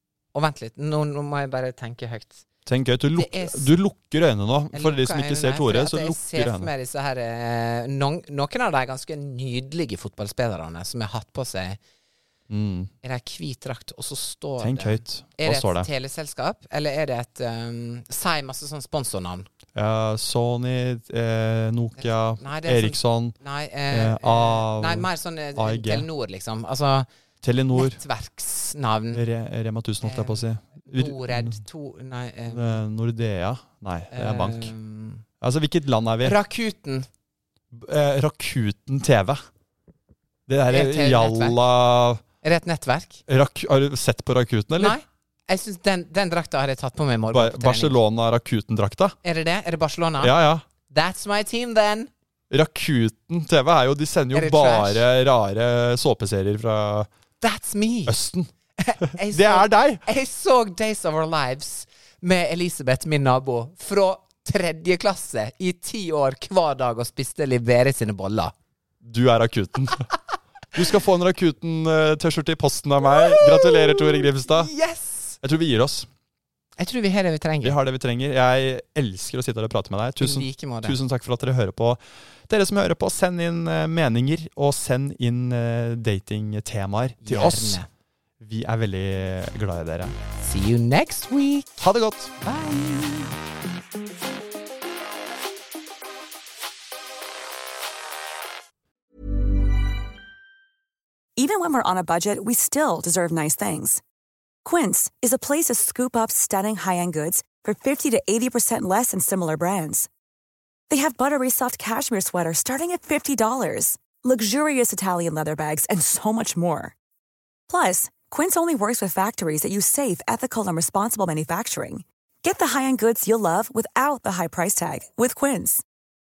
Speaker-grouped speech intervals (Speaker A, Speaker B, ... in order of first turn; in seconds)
Speaker A: 0.3-2.5, 3.2-3.7, 4.7-11.8, 13.0-19.5, 22.0-27.1, 27.7-29.2, 30.0-32.8, 34.1-35.2, 36.2-37.1, 40.7-41.6, 42.4-43.2, 44.8-48.0, 49.2-52.1, 54.3-55.0, 57.4-58.2, 58.8-68.5, 73.0-75.4, 76.8-77.8, 80.2-81.0, 87.2-87.9, 90.4-91.8, 92.4-93.3
Speaker B: 2.7-6.7, 12.5-12.9, 14.6-15.9, 19.8-23.4, 23.9-26.1, 27.4-28.0, 29.1-31.6, 32.5-34.7, 35.4-36.4, 37.7-39.4, 40.5-42.2, 43.3-45.0, 47.3-49.2, 50.2-50.6, 52.5-57.1, 58.1-58.5, 59.2-60.0, 69.0-70.1, 70.7-74.7, 75.4-76.1, 77.6-87.8, 88.4-90.2, 91.8-92.3
Speaker C: 101.4-104.0, 104.6-110.1, 110.9-116.9, 117.7-125.8